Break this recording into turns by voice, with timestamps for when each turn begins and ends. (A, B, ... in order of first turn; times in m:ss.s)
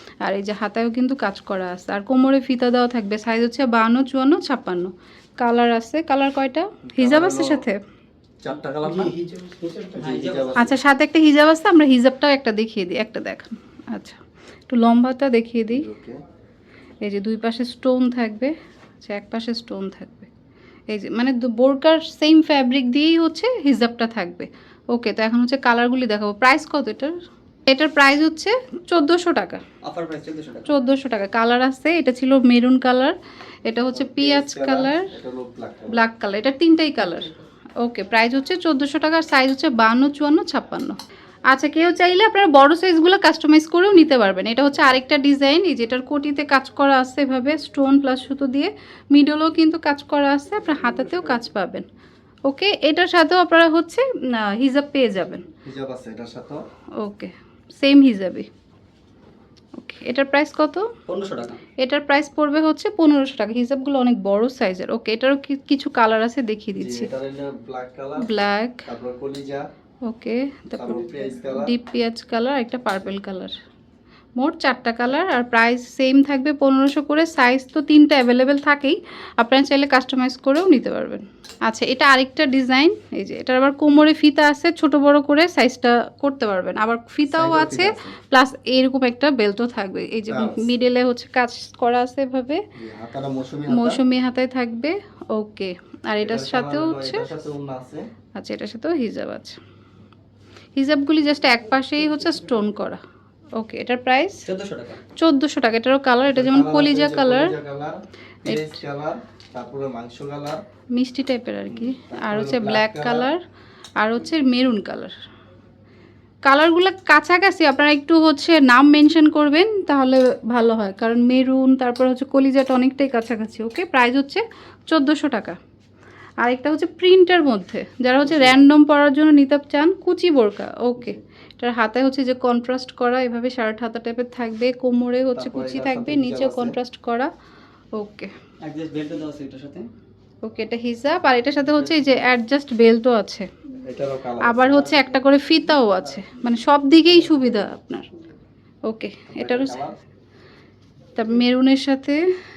0:00.2-0:07.8 A
0:06.9-0:07.6 B
0:08.4-0:09.1 B
0:08.8-0:10.6 C
0:09.9-0:10.8 B
0:10.6-0:15.9 A
0:15.7-0:16.2 B
0:17.0-0:20.3 A
0:20.9-0:27.2 A
0:27.7-0:29.6 A
0:29.8-0:30.7 C
0:30.7-0:35.1 A
0:33.9-0:36.0 B
0:35.9-0:51.8 A
0:52.4-0:55.5 A
0:55.6-0:56.6 B
0:57.0-0:58.5 A
0:59.7-1:00.9 A
1:01.1-1:01.6 C
1:01.8-1:07.1 A
1:06.7-1:08.3 B
1:08.2-1:08.8 A
1:08.8-1:09.6 B
1:10.0-1:13.5 A
1:10.7-1:11.7 B
1:14.4-1:32.6 A
1:27.3-1:28.1 B
1:30.3-1:30.7 B
1:32.8-1:34.0 B
1:33.7-1:37.3 A
1:36.2-1:38.0 B
1:38.3-1:39.6 A
1:40.7-1:43.0 A
1:43.5-1:44.4 A
1:44.4-1:45.0 C
1:45.1-1:47.6 A
1:46.3-1:50.6 B
1:48.4-1:48.7 A
1:50.9-1:53.4 A
1:51.7-1:53.3 B
1:54.0-1:55.1 A
1:56.4-2:05.6 A
2:06.4-2:17.3 A
2:08.2-2:08.6 B
2:15.3-2:16.8 B
2:17.9-2:18.3 A
2:18.6-2:19.9 C
2:20.4-2:23.5 A
2:21.7-2:22.1 B
2:23.8-2:25.1 B
2:24.4-2:28.1 A
2:28.8-2:29.8 A
2:29.3-2:29.9 B
2:31.2-2:32.2 A